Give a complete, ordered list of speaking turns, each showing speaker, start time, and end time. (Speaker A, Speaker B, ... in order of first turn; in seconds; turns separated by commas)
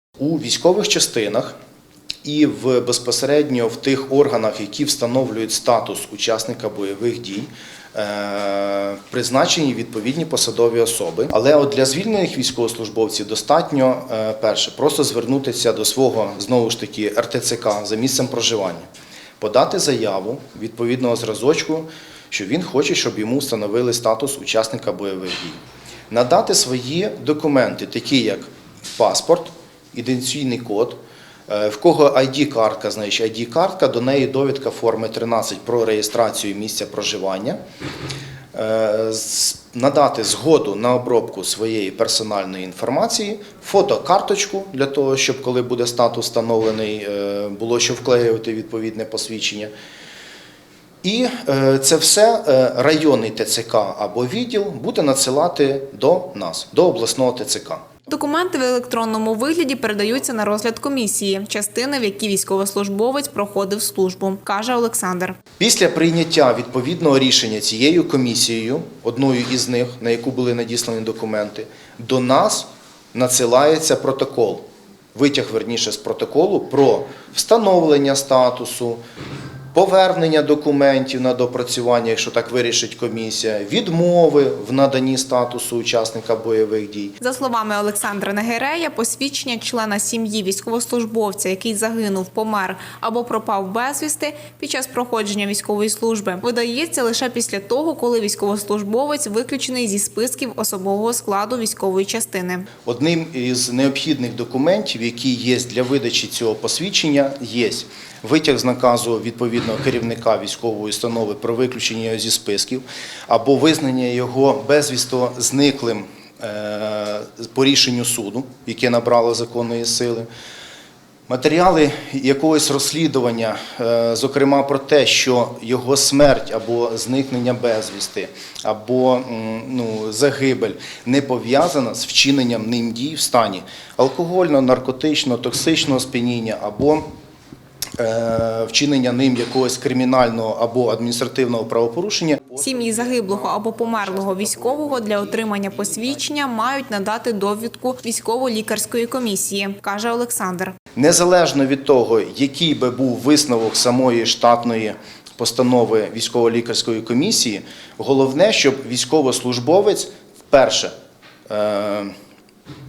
Speaker A: 0.2-1.5, Speaker A: 2.2-18.8, Speaker A: 19.4-31.0, Speaker A: 31.5-37.6, Speaker A: 38.5-49.7, Speaker A: 51.0-57.9, Speaker B: 58.1-65.4, Speaker A: 65.6-74.6, Speaker A: 75.1-79.0, Speaker A: 79.7-87.2, Speaker B: 87.2-102.7, Speaker A: 102.8-120.3, Speaker A: 121.3-137.1, Speaker A: 138.0-146.4, Speaker B: 142.6-150.7, Speaker A: 150.9-160.9, Speaker A: 161.5-162.1